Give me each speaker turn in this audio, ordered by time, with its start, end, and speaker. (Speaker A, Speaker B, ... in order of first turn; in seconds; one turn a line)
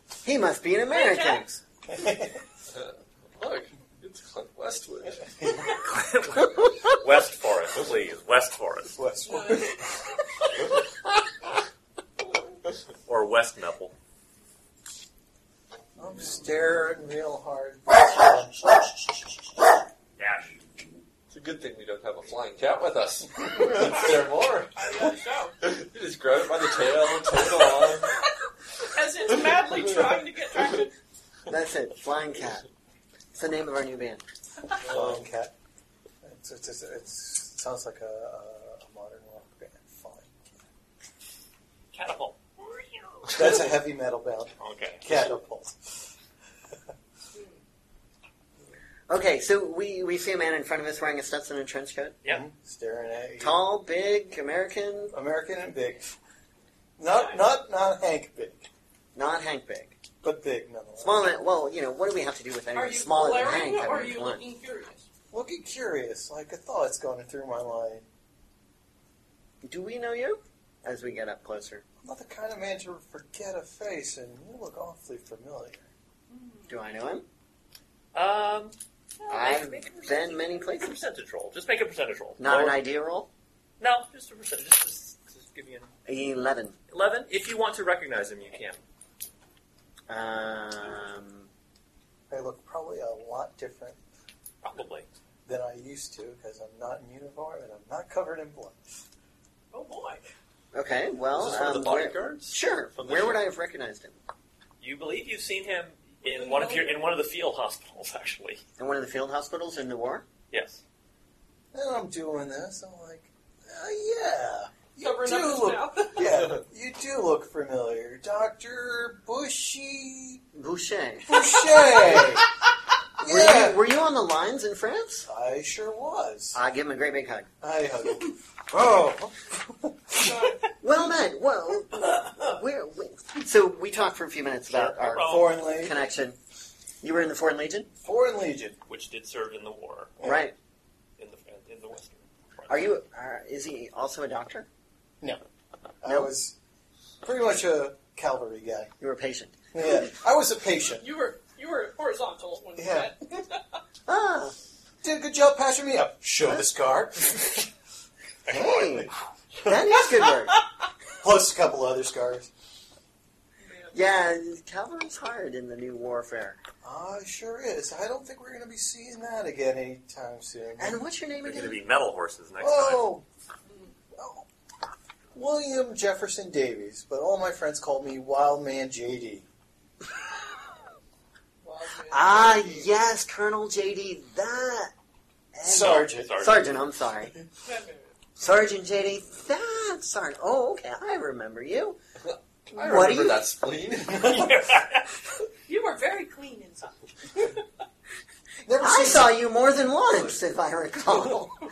Speaker A: 0.2-1.6
Speaker B: 0.9-1.5
Speaker C: 1.9-2.4
Speaker D: 2.7-5.5
Speaker C: 5.4-5.7
Speaker E: 5.8-8.9
Speaker C: 8.9-10.5
Speaker B: 9.2-9.9
Speaker E: 13.1-13.9
Speaker C: 16.0-18.7
Speaker E: 20.2-20.6
Speaker D: 21.3-25.0
Speaker B: 24.7-25.5
Speaker D: 25.6-28.2
Speaker B: 27.6-28.1
Speaker B: 28.8-30.9
Speaker D: 29.3-30.8
Speaker A: 31.5-32.6
Speaker A: 33.3-34.2
Speaker D: 34.8-35.3
Speaker C: 34.9-35.5
Speaker C: 36.2-40.5
Speaker E: 41.9-43.4
Speaker C: 43.3-46.1
Speaker E: 44.6-45.1
Speaker B: 47.3-47.6
Speaker A: 49.1-52.2
Speaker C: 52.2-53.6
Speaker A: 53.4-55.1
Speaker C: 55.1-56.1
Speaker C: 57.0-58.7
Speaker B: 57.1-57.5
Speaker A: 59.1-60.0
Speaker C: 60.2-61.3
Speaker A: 61.0-64.5
Speaker B: 62.7-65.1
Speaker C: 65.3-68.0
Speaker A: 69.6-71.8
Speaker C: 72.0-75.9
Speaker B: 76.3-76.8
Speaker A: 76.7-77.2
Speaker E: 78.1-82.8
Speaker A: 79.3-81.0
Speaker A: 82.4-83.3
Speaker E: 83.8-85.9
Speaker A: 86.0-86.8
Speaker E: 86.9-88.8
Speaker A: 90.1-91.5
Speaker C: 92.3-94.0
Speaker E: 94.6-95.1
Speaker C: 95.5-98.8
Speaker B: 99.7-100.3
Speaker A: 100.7-104.2
Speaker D: 101.3-103.5
Speaker E: 104.8-108.6
Speaker B: 106.2-107.0
Speaker A: 108.8-110.2
Speaker E: 110.5-110.8
Speaker C: 111.7-120.4
Speaker B: 115.0-116.4
Speaker A: 120.5-121.4
Speaker C: 121.3-122.5
Speaker B: 121.6-122.2
Speaker C: 123.2-123.8
Speaker A: 123.2-125.2
Speaker C: 125.2-126.6
Speaker A: 126.5-127.5
Speaker C: 127.6-130.5
Speaker B: 130.1-130.7
Speaker A: 130.8-136.4
Speaker C: 134.8-136.0
Speaker E: 134.9-135.7
Speaker A: 137.0-137.9
Speaker C: 138.0-138.8
Speaker E: 138.9-140.1
Speaker C: 140.2-140.5
Speaker A: 140.2-140.5
Speaker E: 141.2-142.9
Speaker A: 142.7-144.7
Speaker C: 146.0-146.6
Speaker A: 146.1-146.3
Speaker C: 147.2-148.9
Speaker A: 149.0-149.6
Speaker C: 149.7-151.1
Speaker B: 150.9-153.8
Speaker C: 152.8-153.1
Speaker A: 154.1-154.6
Speaker C: 155.0-157.7
Speaker E: 158.4-159.1
Speaker A: 158.5-159.1
Speaker C: 159.6-160.0
Speaker A: 159.6-160.6
Speaker C: 161.2-162.5
Speaker B: 163.6-164.0
Speaker A: 163.9-166.6
Speaker C: 166.8-171.0
Speaker A: 170.8-171.8
Speaker E: 171.4-173.1
Speaker C: 172.6-173.2
Speaker B: 173.7-173.9
Speaker C: 174.2-174.4
Speaker C: 175.3-179.4
Speaker B: 181.6-182.9
Speaker A: 182.1-184.9
Speaker A: 185.5-187.3
Speaker C: 185.6-186.3
Speaker E: 185.7-186.8
Speaker B: 187.6-188.1
Speaker A: 188.4-192.0
Speaker D: 192.2-194.5
Speaker A: 192.7-193.5
Speaker C: 194.2-194.5
Speaker E: 194.2-195.0
Speaker B: 195.7-197.5
Speaker C: 198.7-199.3
Speaker A: 198.8-201.6